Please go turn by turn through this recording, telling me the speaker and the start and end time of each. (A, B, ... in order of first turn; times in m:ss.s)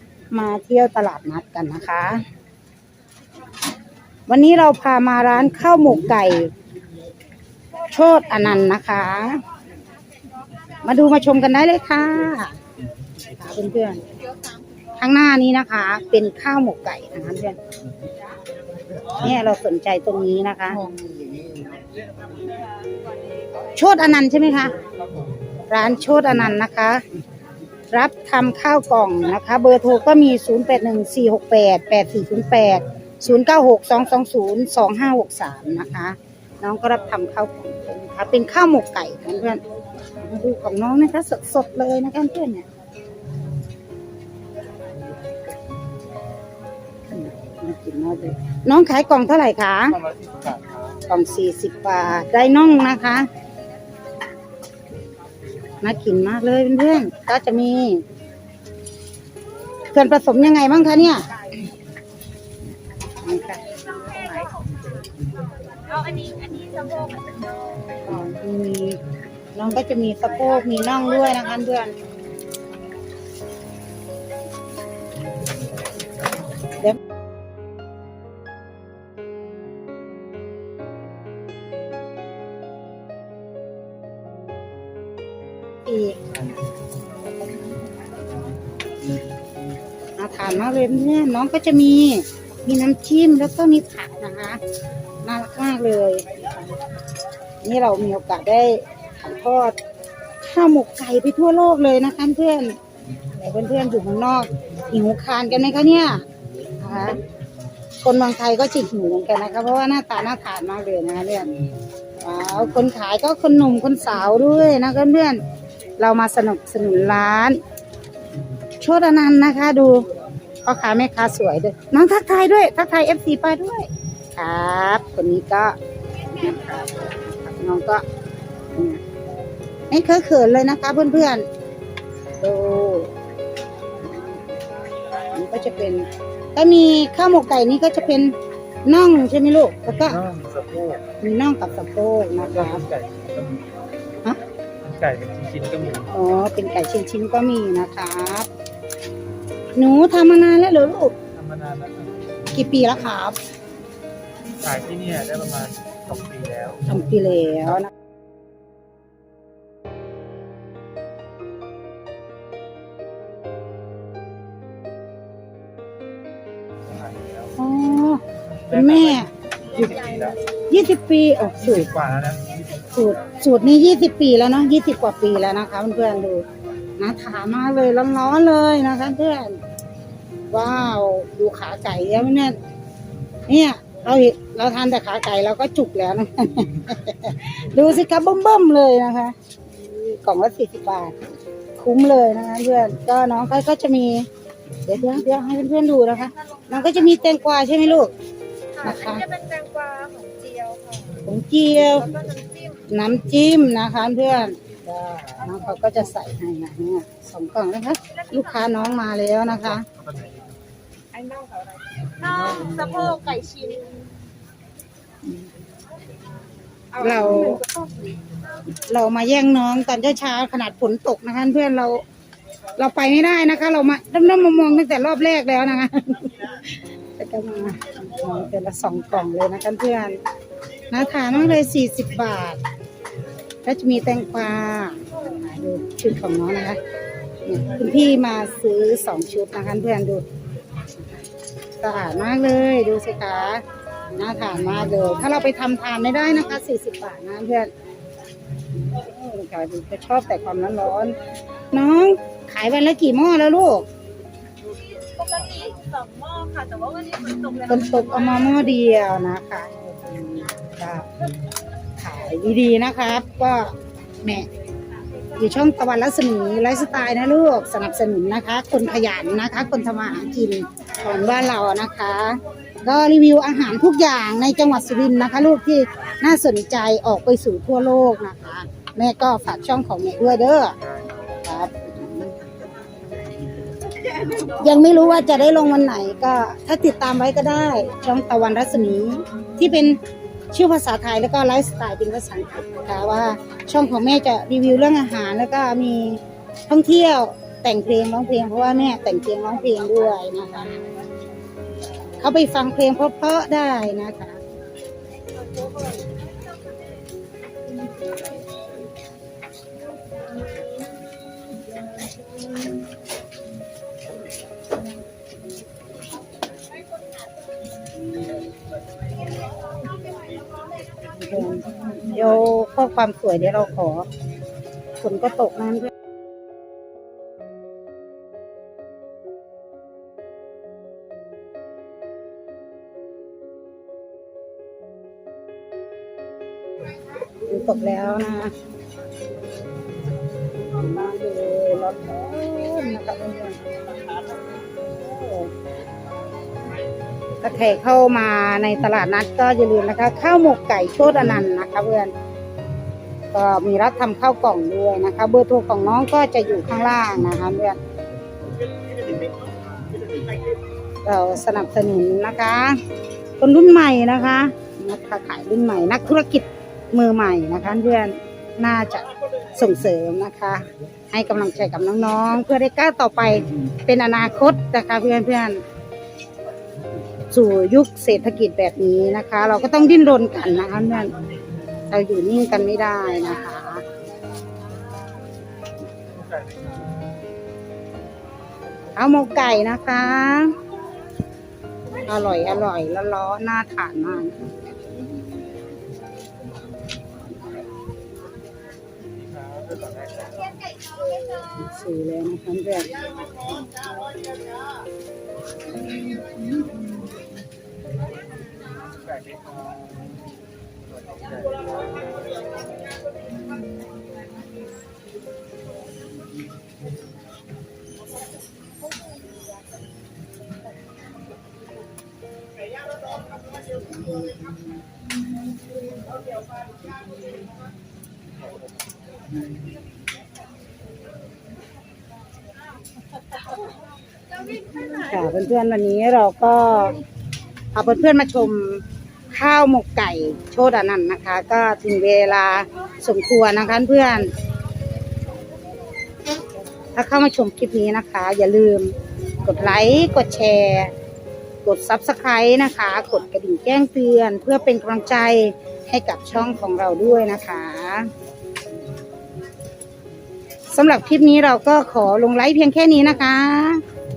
0:00.3-0:02.2 A
0:04.3-0:06.5 A
0:07.8-0:09.4 A
0:10.8-0:12.6 A
0:13.3-0:14.0 A
0:15.0-0:17.6 A
0:19.1-0:20.9 A
0:23.7-0:24.8 A
0:25.7-0:27.0 A
0:27.9-0:39.6 A
0:40.1-0:42.6 A
0:47.1-0:50.0 A
0:50.0-0:51.0 B
0:51.1-0:53.3 A
0:55.8-0:58.0 A
0:59.9-1:01.4 A
1:03.2-1:04.5 A
1:04.0-1:05.0 C
1:05.6-1:07.5 C
1:08.0-1:09.0 A
1:09.5-1:11.9 A
1:25.8-1:26.2 A
1:30.2-1:34.6 A
1:35.2-1:36.4 A
1:37.6-1:39.8 A
1:40.4-1:46.2 A
1:46.8-1:47.2 A
1:48.0-1:51.5 A
1:52.2-1:55.4 A
1:56.0-1:57.6 A
1:58.8-2:00.1 A
2:00.6-2:08.0 A
2:08.7-2:09.0 A
2:09.9-2:11.4 A
2:12.4-2:13.1 A
2:15.2-2:18.3 A
2:18.8-2:20.2 A
2:20.0-2:21.0 B
2:21.2-2:22.8 A
2:22.6-2:23.7 B
2:24.8-2:26.1 B
2:26.1-2:28.5 A
2:29.8-2:31.2 A
2:31.3-2:32.3 B
2:32.5-2:33.4 A
2:34.5-2:36.9 B
2:36.9-2:37.9 A
2:46.9-2:47.5 B
2:47.6-2:49.3 A
2:48.7-2:50.4 B
2:50.7-2:51.9 A
2:51.7-2:52.9 B
2:52.8-2:59.6 A
3:00.5-3:02.6 A
3:03.5-3:14.3 A
3:14.8-3:18.1 A
3:18.8-3:21.2 C
3:18.8-3:19.3 A
3:21.2-3:22.1 A
3:22.1-3:22.8 C
3:22.9-3:29.9 A
3:28.2-3:28.7 C
3:29.7-3:30.5 B
3:31.1-3:34.0 C
3:37.0-3:37.7 A
3:38.9-3:42.0 A
3:42.8-3:50.2 A
3:50.9-3:52.6 A
3:53.6-3:56.8 A
3:57.4-4:00.2 A
4:01.8-4:07.7 A
4:08.9-4:11.1 A
4:11.7-4:13.9 A
4:15.0-4:17.7 C
4:17.7-4:21.1 A
4:22.0-4:24.5 A
4:25.3-4:42.4 A
4:44.1-4:50.0 A
4:50.5-5:00.7 A
5:02.2-5:04.4 A
5:05.4-5:06.1 C
5:21.1-5:24.1 A
5:25.0-5:25.9 A
5:37.4-5:38.5 A
5:40.5-5:43.7 A
5:44.7-5:45.5 A
5:47.4-5:52.1 A
5:53.3-5:57.8 A
6:01.0-6:02.8 A
6:03.4-6:15.6 A
6:17.3-6:21.2 A
6:21.9-6:23.8 A
6:26.2-6:26.7 B
6:28.9-6:30.6 A
6:32.0-6:34.7 A
6:39.0-6:40.6 B
6:41.2-6:43.0 A
6:49.1-6:49.8 B
6:51.0-6:52.0 B
7:14.9-7:17.0 A
7:17.7-7:24.3 A
7:26.9-7:30.9 A
7:31.6-7:38.1 A
7:40.7-7:43.8 A